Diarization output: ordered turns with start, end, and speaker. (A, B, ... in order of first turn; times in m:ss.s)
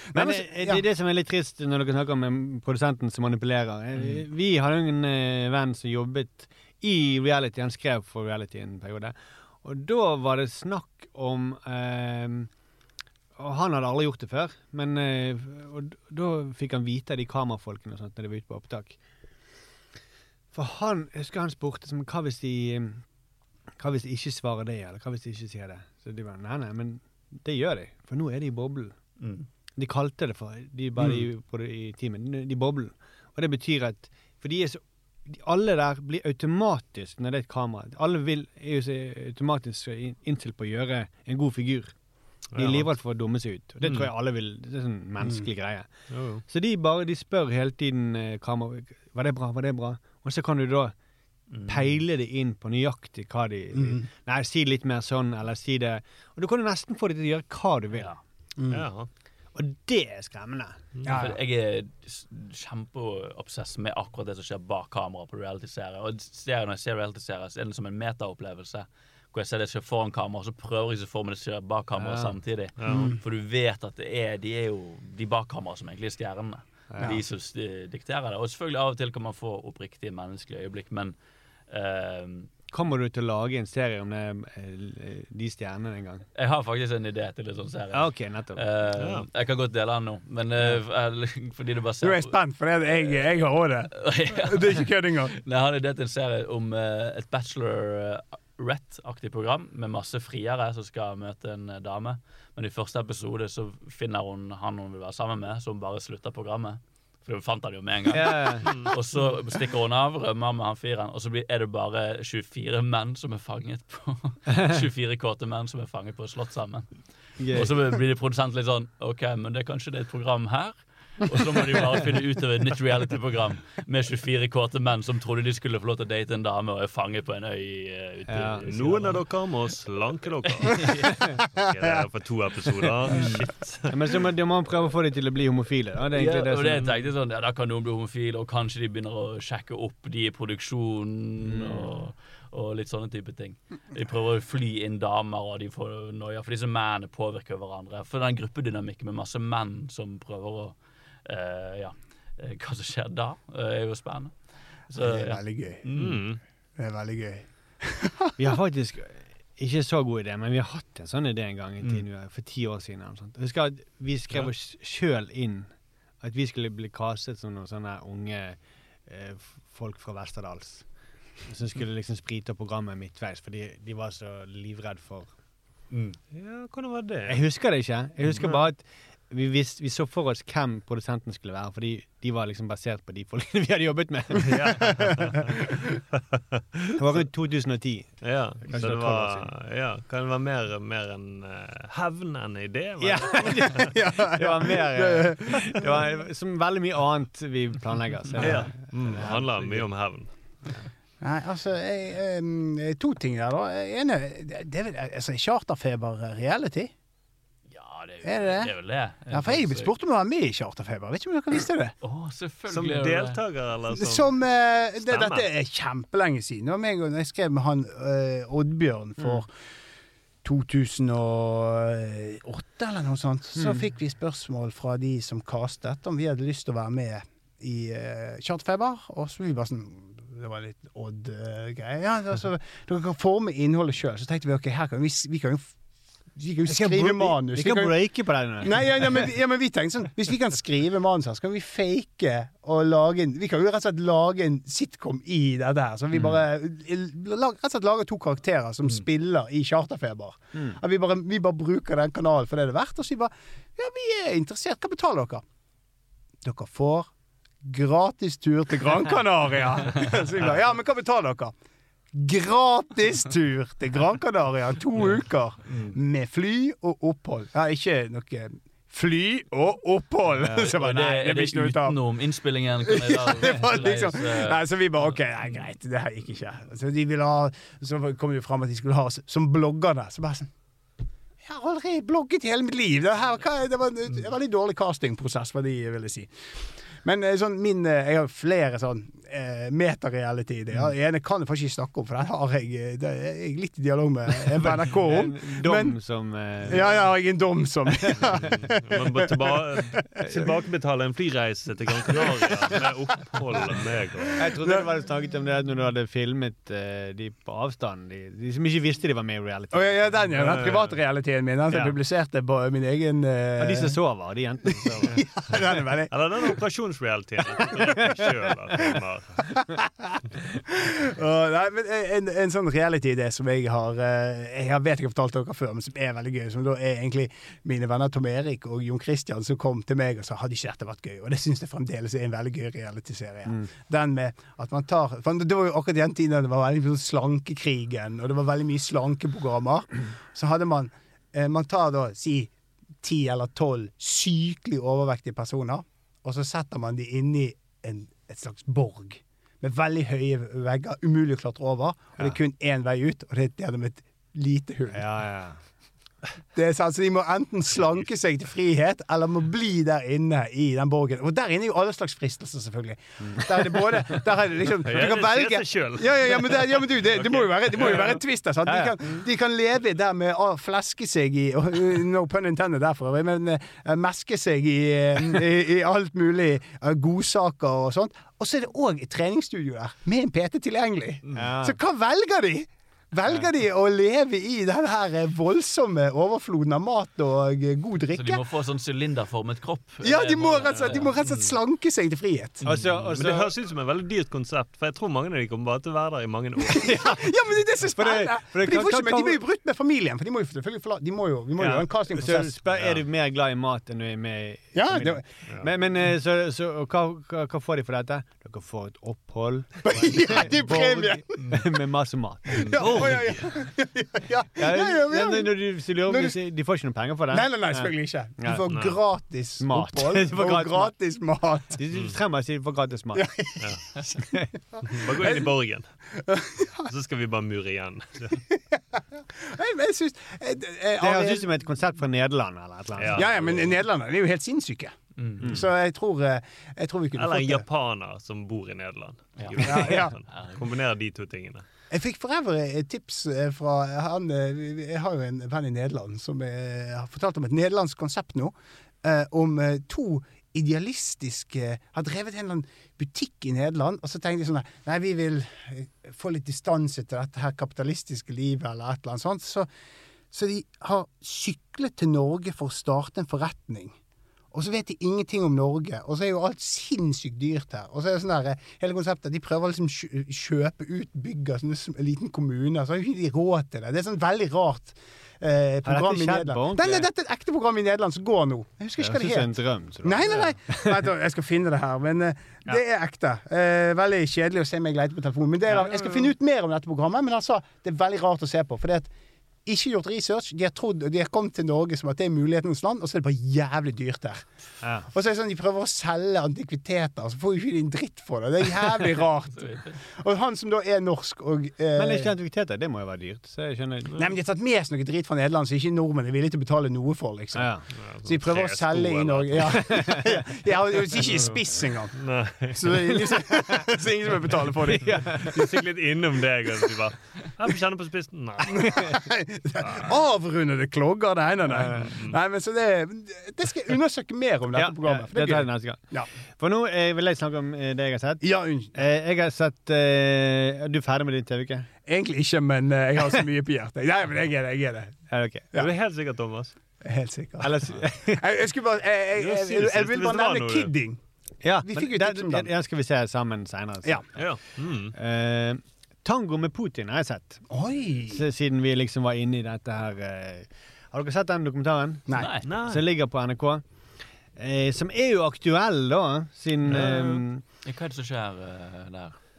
0:00.1-0:00.8 A
0:00.1-0:12.5 B
0:04.0-0:04.2 C
0:13.4-0:19.0 B
0:20.5-0:23.0 B
0:23.8-0:28.9 B
0:29.2-0:29.5 C
0:29.8-0:41.9 B
0:31.0-0:31.3 A
0:42.5-0:42.9 D
0:42.6-0:45.9 B
0:43.8-0:44.1 D
0:45.2-0:45.5 A
0:46.1-0:46.4 D
0:46.4-0:50.9 B
0:51.5-0:52.0 C
0:51.7-0:58.2 B
0:53.7-0:54.1 A
0:58.6-0:58.9 A
0:58.7-0:59.1 D
0:59.6-1:00.8 B
1:01.0-1:01.4 A
1:01.1-1:21.2 C
1:12.0-1:12.4 B
1:12.8-1:13.1 D
1:12.8-1:13.2 A
1:16.9-1:17.2 B
1:21.7-1:22.5 C
1:22.7-1:26.2 B
1:26.4-1:32.4 C
1:27.9-1:28.6 B
1:29.0-1:29.3 D
1:32.0-1:35.4 A
1:32.9-1:33.2 C
1:34.0-2:09.3 C
1:48.1-1:48.9 B
1:57.4-1:57.8 B
2:08.3-2:08.6 B
2:08.7-2:10.9 D
2:10.6-2:11.2 C
2:11.5-2:14.2 D
2:13.1-2:13.4 C
2:13.9-2:17.0 B
2:16.2-2:34.3 C
2:21.4-2:21.9 B
2:34.9-2:36.2 C
2:35.0-2:35.8 A
2:36.0-2:36.4 D
2:36.8-2:38.4 A
2:38.4-2:45.7 B
2:46.2-2:50.9 B
2:51.4-2:55.3 B
2:55.9-2:56.2 C
2:56.3-2:57.4 D
2:57.3-3:04.8 B
2:58.4-2:58.6 D
3:04.4-3:05.7 D
3:07.0-3:09.5 B
3:08.2-3:14.0 D
3:13.0-3:19.9 B
3:13.8-3:15.8 A
3:18.4-3:20.3 D
3:21.2-3:26.9 A
3:27.7-3:29.9 C
3:28.2-3:28.7 A
3:29.3-3:31.9 A
3:32.0-3:33.4 C
3:32.7-3:34.3 D
3:33.9-3:39.5 A
3:35.0-3:35.5 D
3:40.4-3:55.7 A
3:43.6-3:43.8 B
3:56.4-3:58.0 A
3:56.7-3:59.0 B
3:58.6-4:15.4 A
4:16.4-4:17.1 A
4:17.6-4:21.5 A
4:22.1-4:32.0 A
4:25.7-4:26.0 C
4:30.4-4:35.6 C
4:32.9-4:40.5 A
4:41.4-4:56.0 A
4:54.6-4:57.1 B
4:56.6-5:00.0 A
4:58.4-5:04.5 D
5:04.4-5:10.8 B
5:04.6-5:04.9 A
5:09.7-5:14.0 A
5:10.4-5:11.0 D
5:11.7-5:12.0 B
5:13.6-5:15.2 B
5:14.7-5:16.6 A
5:16.1-5:19.6 D
5:19.6-5:55.0 A
5:54.9-5:55.6 B
5:56.5-6:28.4 A
6:03.2-6:04.2 B
6:04.8-6:08.2 D
6:08.7-6:09.2 B
6:21.4-6:21.8 B
6:28.1-6:31.5 C
6:30.0-6:32.7 A
6:30.7-6:31.0 D
6:32.6-6:33.5 B
6:32.7-6:37.2 D
6:36.7-6:42.6 A
6:37.9-6:39.4 B
6:41.6-6:53.2 B
6:42.7-6:43.0 D
6:44.7-6:45.2 A
6:49.8-6:51.6 A
6:52.5-6:56.4 A
6:52.6-6:53.4 D
6:54.6-6:58.7 B
6:57.3-7:01.8 A
6:58.7-6:59.0 D
6:59.6-7:00.9 B
7:01.8-7:03.2 B
7:03.1-7:03.7 A
7:03.6-7:03.9 D
7:04.2-7:04.5 B
7:04.8-7:05.5 A
7:04.9-7:05.9 D
7:06.1-7:06.9 A
7:06.9-7:08.4 D
7:08.7-7:11.5 A
7:11.0-7:13.7 B
7:13.0-7:13.2 D
7:13.1-7:17.6 A
7:15.2-7:15.5 C
7:15.4-7:15.7 B
7:17.2-7:21.6 D
7:19.6-7:20.1 A
7:20.3-7:20.6 C
7:21.9-7:39.7 A
7:40.3-7:44.0 A
7:44.5-8:09.1 A
7:55.8-7:57.1 B
7:59.0-8:01.0 B
8:05.7-8:06.3 B
8:09.7-8:14.5 A
8:14.8-8:15.1 B
8:15.1-8:22.3 A
8:19.5-8:20.0 C
8:22.0-8:24.1 B
8:24.2-8:35.5 A
8:27.5-8:27.8 B
8:28.0-8:29.9 D
8:29.8-8:30.4 B
8:32.2-8:33.2 D
8:34.9-8:35.6 B
8:35.4-8:39.2 D
8:38.8-8:46.3 A
8:39.8-8:40.1 D
8:41.7-8:42.1 B
8:41.9-8:42.4 D
8:44.7-8:48.4 B
8:48.4-8:48.9 A
8:48.9-8:51.9 B
8:52.1-8:55.9 A
8:55.3-8:55.7 B
8:55.8-8:56.8 D
8:57.0-9:01.2 A
8:57.6-8:58.4 B
8:59.4-9:00.9 D
9:01.6-9:04.2 B
9:01.8-9:02.7 A
9:04.4-9:05.2 D
9:05.2-9:07.7 B
9:07.7-9:08.4 A
9:08.3-9:12.3 B
9:12.3-9:12.7 C
9:12.7-9:13.0 D
9:12.8-9:13.8 B
9:14.6-9:17.6 B
9:16.9-9:17.4 D
9:17.8-9:19.4 C